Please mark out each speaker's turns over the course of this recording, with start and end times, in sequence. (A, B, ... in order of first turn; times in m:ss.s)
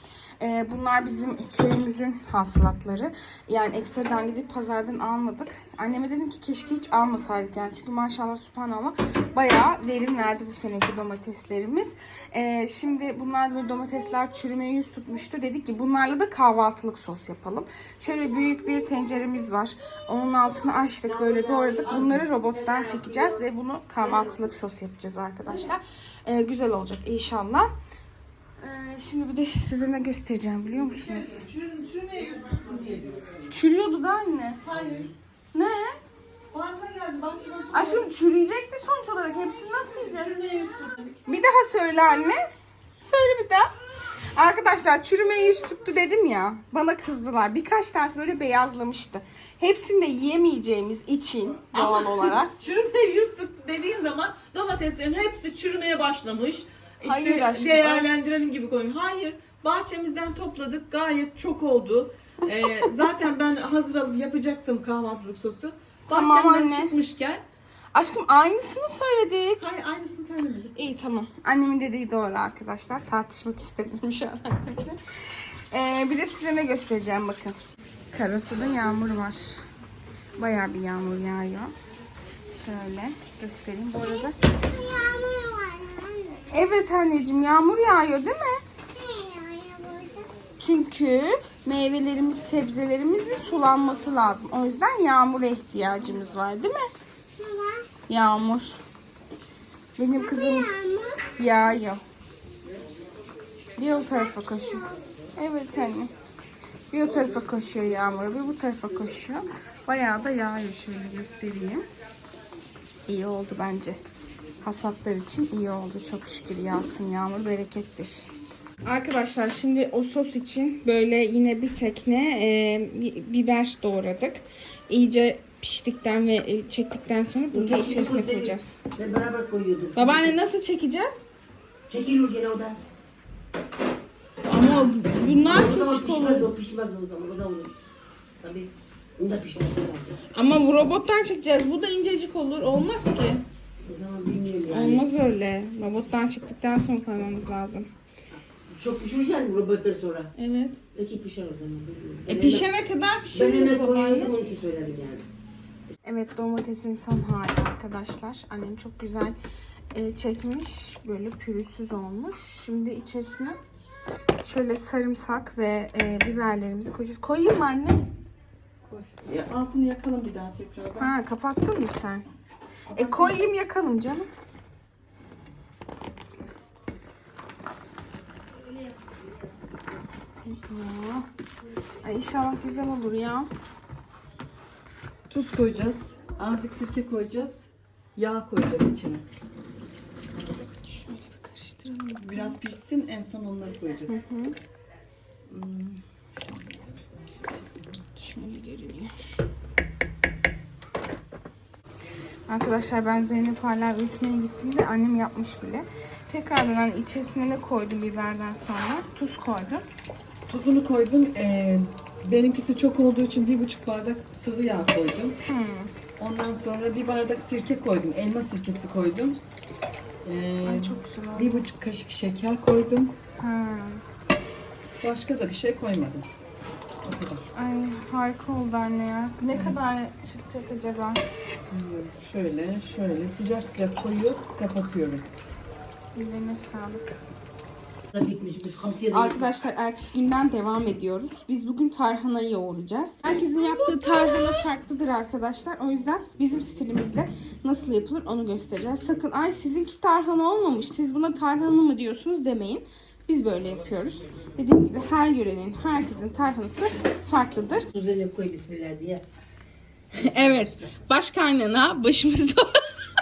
0:00.4-0:27.7 A
0:21.0-0:23.4 B
0:24.0-0:24.4 B
0:28.6-0:31.3 A
0:30.8-0:33.2 C
0:33.5-0:34.6 A
0:34.6-0:35.1 C
0:35.5-0:36.0 A
0:36.5-0:38.1 C
0:37.7-0:40.4 A
0:40.0-0:41.2 C
0:41.3-0:42.4 A
0:43.0-0:43.7 A
0:44.3-0:52.5 A
0:51.7-1:07.4 C
0:57.0-0:58.1 A
1:06.1-1:06.9 A
1:07.9-1:09.6 A
1:09.6-1:10.8 C
1:10.8-1:17.6 A
1:18.1-1:19.6 A
1:20.4-1:21.7 A
1:22.5-1:24.3 A
1:24.0-1:26.4 D
1:26.5-1:28.6 A
1:28.9-1:30.3 D
1:30.6-1:36.9 A
1:37.4-1:37.9 D
1:38.1-1:38.8 A
1:40.0-1:40.7 A
1:40.2-1:41.3 D
1:41.4-1:42.0 A
1:43.8-1:46.1 A
1:43.9-1:45.0 D
1:46.9-1:51.8 A
1:53.1-1:54.0 A
1:54.6-1:58.3 A
1:58.8-2:08.8 A
2:07.5-2:10.3 B
2:10.0-2:11.2 A
2:11.9-2:12.8 B
2:14.5-2:16.5 A
2:15.3-2:17.7 B
2:18.4-2:20.2 B
2:20.3-2:23.4 A
2:23.9-2:25.1 B
2:24.7-2:27.9 A
2:28.3-2:30.3 B
2:30.4-2:30.8 A
2:30.9-2:32.7 B
2:32.2-2:34.3 A
2:33.3-2:35.2 B
2:36.0-2:39.4 A
2:39.9-2:43.6 A
2:44.4-2:48.0 A
2:48.9-2:51.1 C
2:51.0-2:52.2 A
2:52.9-2:53.5 C
2:52.9-2:54.3 A
3:00.4-3:01.3 A
3:02.0-3:03.5 A
3:05.3-3:09.2 C
3:10.7-3:12.6 A
3:12.2-3:14.2 C
3:14.1-3:14.6 A
3:15.5-3:18.1 C
3:18.2-3:19.4 A
3:22.5-3:29.9 A
3:30.5-3:35.4 C
3:35.4-3:35.9 A
3:36.2-3:39.4 C
3:40.2-3:43.2 C
3:40.6-3:41.6 A
3:43.4-3:44.0 A
3:45.0-3:46.2 C
3:47.0-3:47.4 C
3:47.6-3:51.2 A
3:49.5-3:49.8 C
3:51.7-3:55.2 C
3:56.2-3:57.2 A
3:58.1-3:59.6 B
3:59.1-4:17.9 A
4:03.6-4:04.7 D
4:17.9-4:19.2 B
4:20.1-4:20.9 B
4:20.2-4:22.8 A